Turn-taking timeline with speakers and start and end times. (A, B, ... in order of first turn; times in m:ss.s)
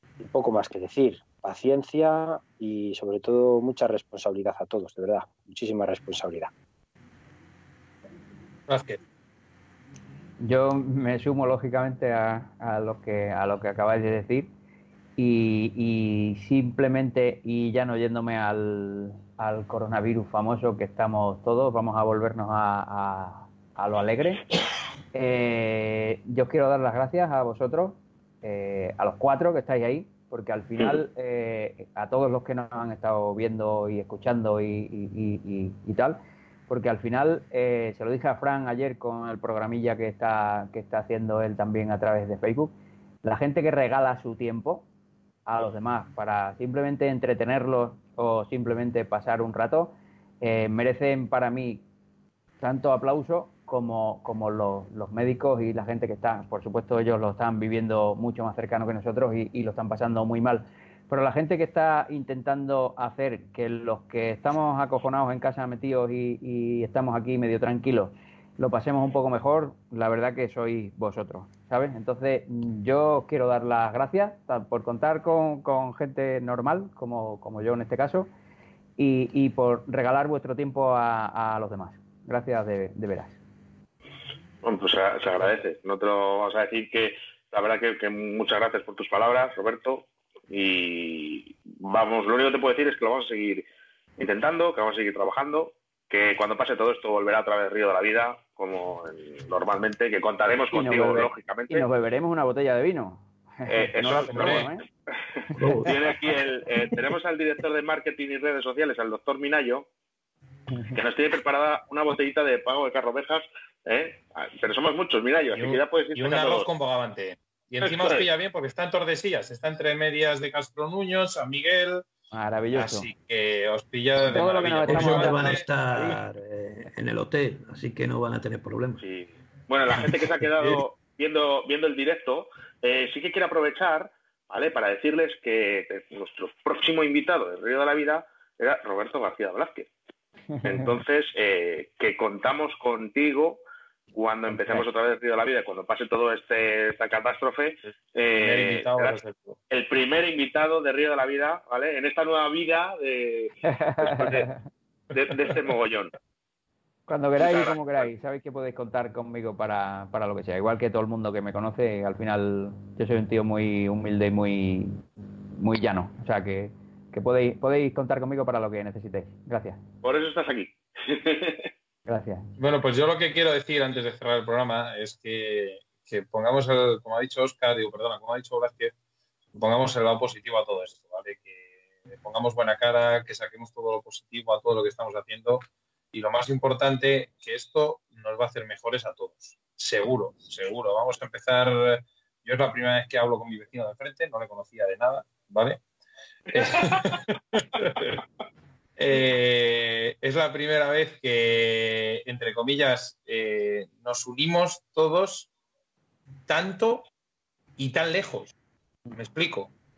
0:00.2-0:06.5 A
0:08.7-0:09.0 B
0:10.4-0:14.5 C
0:15.2-0:24.5 C
0:25.1-0:42.7 C
0:43.2-0:44.8 C
0:45.4-0:51.8 C
0:52.6-1:18.3 C
1:19.0-1:23.4 C
1:24.6-1:33.6 D
1:34.2-1:41.9 D
1:40.7-1:44.8 C
1:43.7-1:44.7 D
1:44.1-1:44.6 B
1:45.6-1:46.0 E
1:45.6-1:45.9 C
1:45.8-1:49.9 D
1:50.9-1:56.7 D
1:55.5-2:02.1 B
1:57.8-1:58.2 D
2:02.3-2:03.1 C
2:02.7-2:05.6 B
2:04.2-2:06.2 C
2:04.8-2:09.0 E
2:09.0-2:19.9 D
2:20.5-2:20.9 C
2:20.6-2:23.6 D
2:24.1-2:29.2 D
2:28.4-2:29.6 B
2:29.7-2:34.5 D
2:33.6-2:34.6 C
2:35.1-2:35.6 B
2:35.1-2:36.1 D
2:37.1-2:49.8 C
2:37.4-2:38.0 D
2:50.0-2:51.7 D
2:52.0-2:52.5 C
2:52.6-2:58.9 B
2:59.5-3:01.6 B
3:02.1-3:15.8 B
3:16.5-3:18.2 B
3:16.6-3:17.0 D
3:19.0-3:25.5 B
3:26.5-3:27.1 B
3:27.8-3:28.5 B
3:29.1-3:29.7 B